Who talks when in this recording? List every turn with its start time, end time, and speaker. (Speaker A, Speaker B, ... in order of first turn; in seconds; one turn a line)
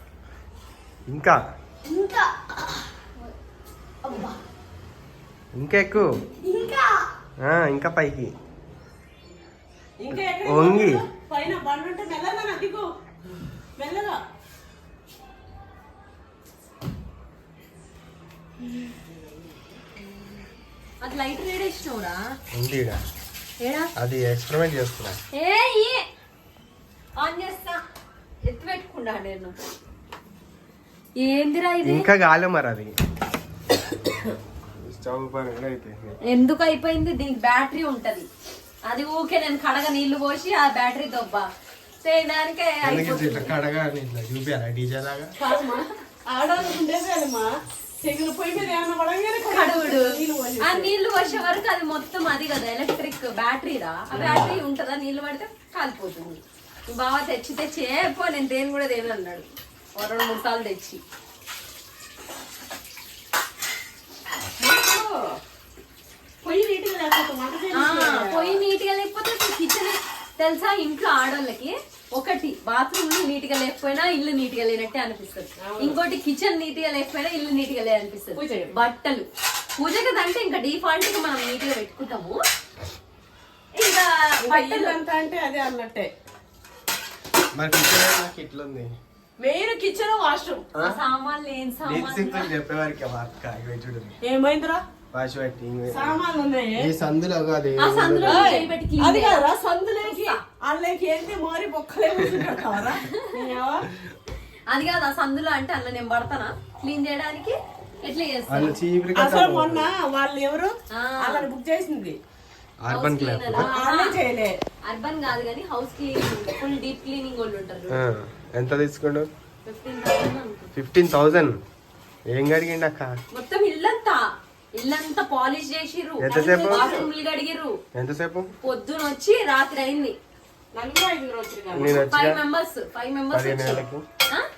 Speaker A: 1.1-1.4
Speaker B: 1.9-3.3
Speaker B: 4.0-4.4
Speaker A: 5.5-6.2
Speaker B: 6.4-7.0
Speaker A: 7.4-8.3
Speaker C: 10.0-12.9
Speaker A: 10.1-11.0
Speaker C: 13.8-14.2
Speaker B: 21.0-22.3
Speaker A: 22.5-23.0
Speaker B: 23.6-23.9
Speaker A: 24.0-25.2
Speaker B: 25.3-26.1
Speaker B: 27.2-27.8
Speaker B: 28.4-29.6
Speaker B: 31.2-32.1
Speaker A: 31.8-32.9
Speaker A: 34.8-36.2
Speaker B: 36.3-38.3
Speaker B: 38.9-41.5
Speaker B: 42.0-43.5
Speaker A: 42.8-45.3
Speaker C: 45.4-50.9
Speaker B: 49.5-61.0
Speaker A: 54.1-54.6
Speaker C: 54.2-54.4
Speaker C: 64.6-65.3
Speaker C: 66.4-68.6
Speaker B: 67.7-79.3
Speaker C: 75.6-76.0
Speaker C: 78.3-78.7
Speaker B: 79.8-82.4
Speaker B: 83.8-85.0
Speaker C: 84.4-86.1
Speaker A: 87.5-88.9
Speaker C: 89.4-90.7
Speaker A: 90.7-91.0
Speaker B: 90.8-92.5
Speaker A: 91.8-94.2
Speaker C: 94.2-94.8
Speaker A: 95.1-96.2
Speaker C: 95.9-96.9
Speaker A: 96.8-98.6
Speaker B: 97.8-99.5
Speaker C: 98.2-103.9
Speaker B: 100.0-100.4
Speaker A: 102.2-102.6
Speaker B: 103.1-103.4
Speaker B: 104.7-108.8
Speaker A: 108.5-109.9
Speaker C: 109.2-112.2
Speaker B: 110.9-111.5
Speaker A: 112.8-113.7
Speaker B: 112.9-114.2
Speaker C: 113.5-114.6
Speaker B: 114.8-118.0
Speaker A: 117.9-119.3
Speaker B: 119.7-120.7
Speaker A: 120.7-121.6
Speaker A: 122.3-123.1
Speaker B: 123.3-127.8
Speaker A: 126.2-126.9
Speaker C: 126.3-127.1
Speaker A: 127.9-128.5
Speaker B: 128.6-130.2
Speaker C: 130.7-132.0
Speaker A: 131.7-132.4
Speaker B: 131.8-134.5
Speaker A: 133.3-134.0